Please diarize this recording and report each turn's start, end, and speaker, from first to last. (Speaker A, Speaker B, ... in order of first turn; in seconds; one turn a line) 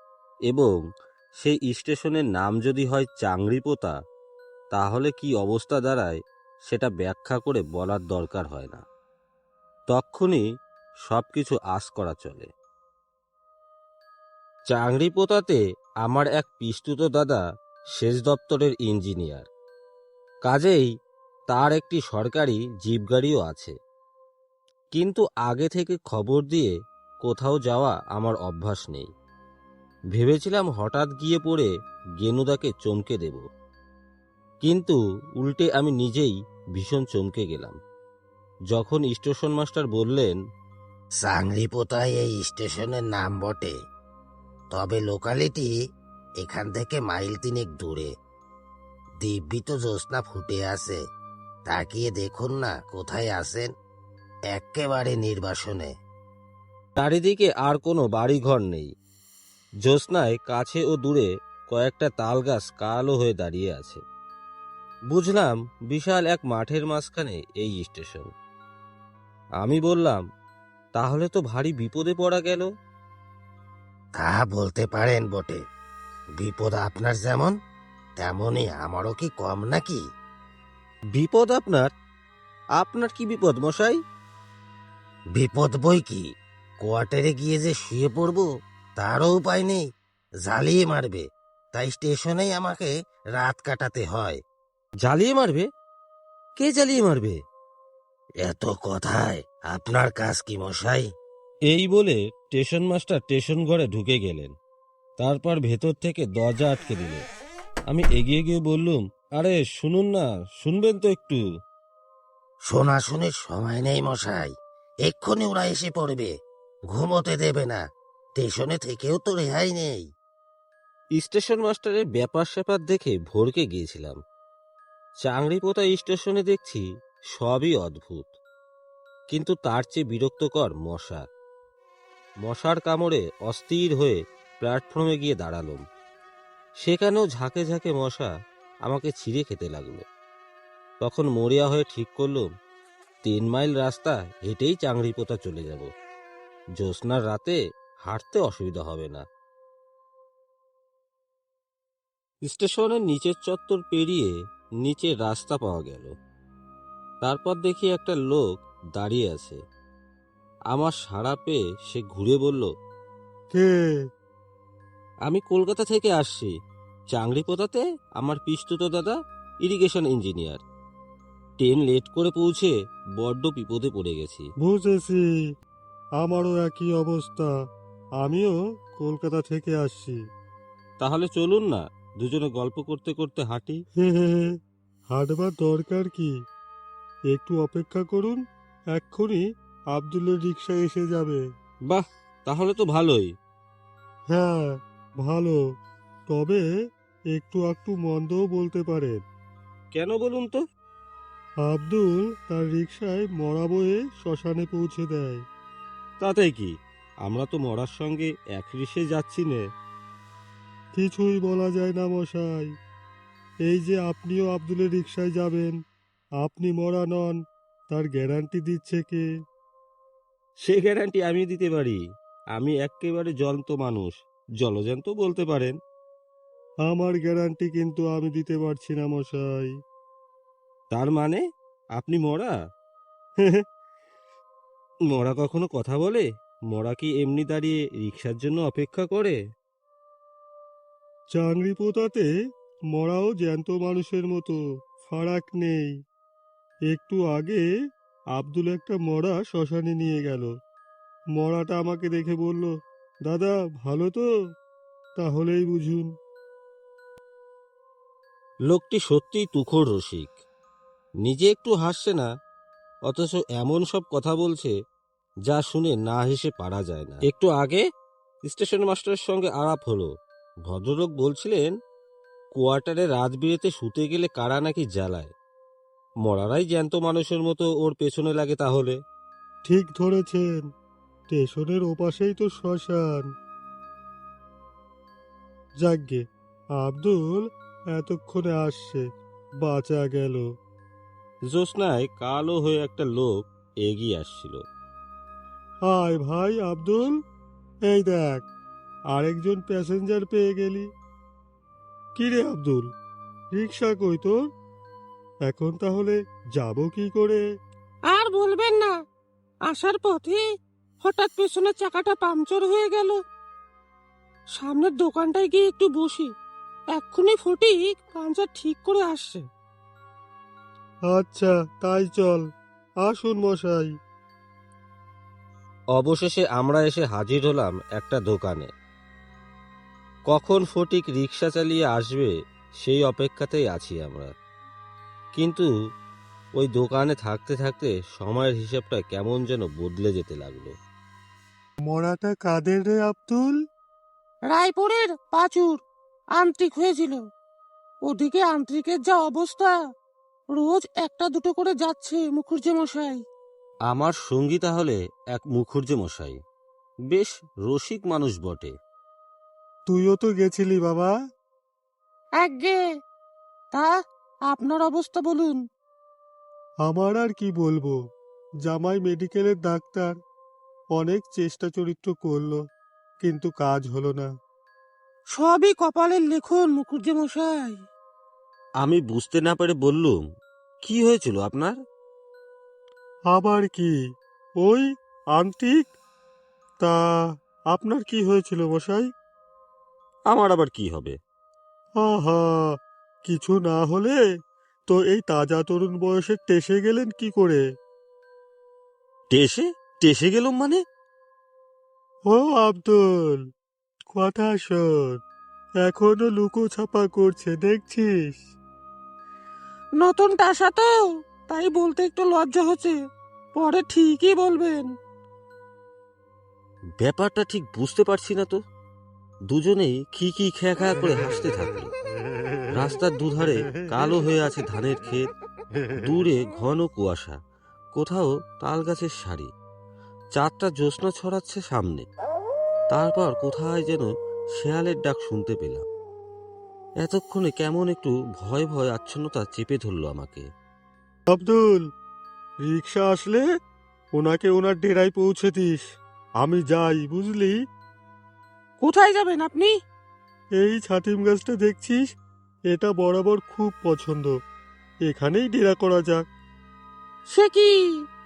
Speaker A: 0.5-0.8
Speaker A: 1.4-4.0
Speaker A: 4.7-8.8
Speaker A: 9.9-10.4
Speaker A: 11.1-12.5
Speaker A: 14.7-17.4
Speaker A: 17.9-19.5
Speaker A: 20.4-20.9
Speaker A: 21.5-23.8
Speaker A: 24.9-29.1
Speaker A: 30.1-33.4
Speaker A: 34.6-37.8
Speaker A: 38.7-40.4
Speaker B: 41.2-43.8
Speaker B: 44.7-45.7
Speaker B: 46.4-48.1
Speaker B: 49.2-51.0
Speaker B: 51.7-53.7
Speaker B: 54.5-55.9
Speaker A: 57.0-58.9
Speaker A: 59.8-64.0
Speaker A: 65.1-68.3
Speaker A: 69.6-70.2
Speaker A: 71.0-72.7
Speaker B: 74.2-75.6
Speaker B: 76.4-77.5
Speaker B: 78.2-80.0
Speaker A: 81.1-81.9
Speaker A: 82.8-84.0
Speaker B: 85.3-86.3
Speaker B: 86.8-89.8
Speaker B: 90.4-94.4
Speaker A: 95.0-95.7
Speaker A: 96.6-97.4
Speaker B: 98.4-101.1
Speaker A: 101.7-104.5
Speaker A: 105.2-107.2
Speaker A: 107.9-111.4
Speaker B: 112.7-114.5
Speaker B: 115.0-116.3
Speaker B: 116.9-117.8
Speaker B: 118.4-120.1
Speaker A: 121.2-124.2
Speaker A: 125.2-128.4
Speaker A: 129.3-131.2
Speaker A: 132.4-135.8
Speaker A: 136.8-138.3
Speaker A: 138.9-140.0
Speaker A: 141.0-142.5
Speaker A: 143.2-145.9
Speaker A: 146.8-149.2
Speaker A: 152.4-156.1
Speaker A: 157.2-159.6
Speaker A: 160.7-162.7
Speaker C: 163.5-164.0
Speaker A: 165.2-166.5
Speaker A: 167.1-170.6
Speaker A: 171.6-174.5
Speaker C: 174.6-175.3
Speaker C: 176.2-177.5
Speaker C: 178.2-180.2
Speaker A: 181.0-183.8
Speaker C: 184.0-184.6
Speaker C: 185.1-186.3
Speaker C: 187.3-188.4
Speaker C: 188.9-191.4
Speaker A: 191.9-193.3
Speaker C: 194.3-195.6
Speaker C: 196.3-196.7
Speaker C: 197.3-199.2
Speaker A: 199.9-200.6
Speaker C: 201.6-205.4
Speaker A: 206.2-209.6
Speaker C: 211.0-212.7
Speaker C: 213.7-215.8
Speaker C: 216.4-217.4
Speaker C: 217.9-219.2
Speaker A: 220.6-222.0
Speaker A: 222.6-225.8
Speaker C: 226.8-229.7
Speaker A: 230.9-231.4
Speaker A: 232.0-232.6
Speaker A: 235.1-239.4
Speaker C: 241.3-242.3
Speaker C: 242.9-245.9
Speaker C: 246.9-247.7
Speaker C: 248.3-250.5
Speaker C: 251.4-252.7
Speaker C: 253.2-254.2
Speaker C: 255.2-256.1
Speaker A: 258.7-260.4
Speaker A: 261.2-262.3
Speaker A: 263.1-264.7
Speaker A: 265.5-267.8
Speaker A: 268.4-270.1
Speaker A: 270.7-271.7
Speaker A: 272.6-275.3
Speaker A: 276.2-279.0
Speaker C: 279.7-280.7
Speaker C: 281.3-283.2
Speaker C: 285.8-286.2
Speaker C: 286.8-289.1
Speaker C: 289.6-290.4
Speaker A: 291.5-294.6
Speaker C: 295.9-297.2
Speaker C: 297.9-298.4
Speaker C: 299.1-300.9
Speaker C: 302.2-302.9
Speaker C: 303.6-304.4
Speaker C: 305.5-307.4
Speaker D: 308.1-308.9
Speaker D: 309.7-310.4
Speaker D: 311.0-313.2
Speaker D: 314.6-316.3
Speaker D: 316.9-319.4
Speaker C: 321.1-322.4
Speaker C: 323.0-323.9
Speaker A: 325.9-328.7
Speaker A: 330.3-334.3
Speaker A: 335.4-335.7
Speaker A: 336.6-340.7
Speaker C: 341.9-343.6
Speaker D: 344.5-345.8
Speaker D: 346.4-347.2
Speaker D: 348.1-349.8
Speaker D: 350.6-353.2
Speaker A: 353.9-356.4
Speaker A: 357.1-358.7
Speaker C: 359.9-361.1
Speaker D: 362.4-362.8
Speaker D: 364.5-365.6
Speaker C: 366.9-368.0
Speaker C: 368.6-370.1
Speaker C: 370.9-372.6
Speaker C: 373.2-374.3
Speaker D: 375.4-377.8
Speaker A: 378.8-380.2
Speaker A: 380.8-381.8
Speaker C: 383.3-383.9
Speaker C: 384.6-385.9
Speaker C: 387.7-389.1
Speaker A: 390.3-391.2
Speaker C: 392.0-392.8
Speaker C: 393.2-394.2
Speaker C: 394.9-397.6
Speaker A: 399.3-400.8
Speaker C: 402.3-403.4
Speaker C: 404.1-405.2
Speaker C: 405.8-408.4
Speaker D: 410.0-412.9
Speaker D: 413.6-414.9
Speaker A: 417.0-418.6
Speaker A: 419.5-421.9
Speaker A: 422.7-425.3
Speaker A: 426.0-427.4
Speaker A: 427.9-429.5
Speaker A: 430.3-432.1
Speaker A: 432.9-435.9
Speaker A: 437.0-440.5
Speaker C: 441.3-441.9
Speaker C: 442.6-443.4
Speaker C: 444.2-445.8
Speaker C: 446.4-447.6
Speaker D: 448.8-449.7
Speaker C: 450.6-452.0
Speaker C: 452.7-454.3
Speaker C: 455.1-456.2
Speaker D: 457.3-457.7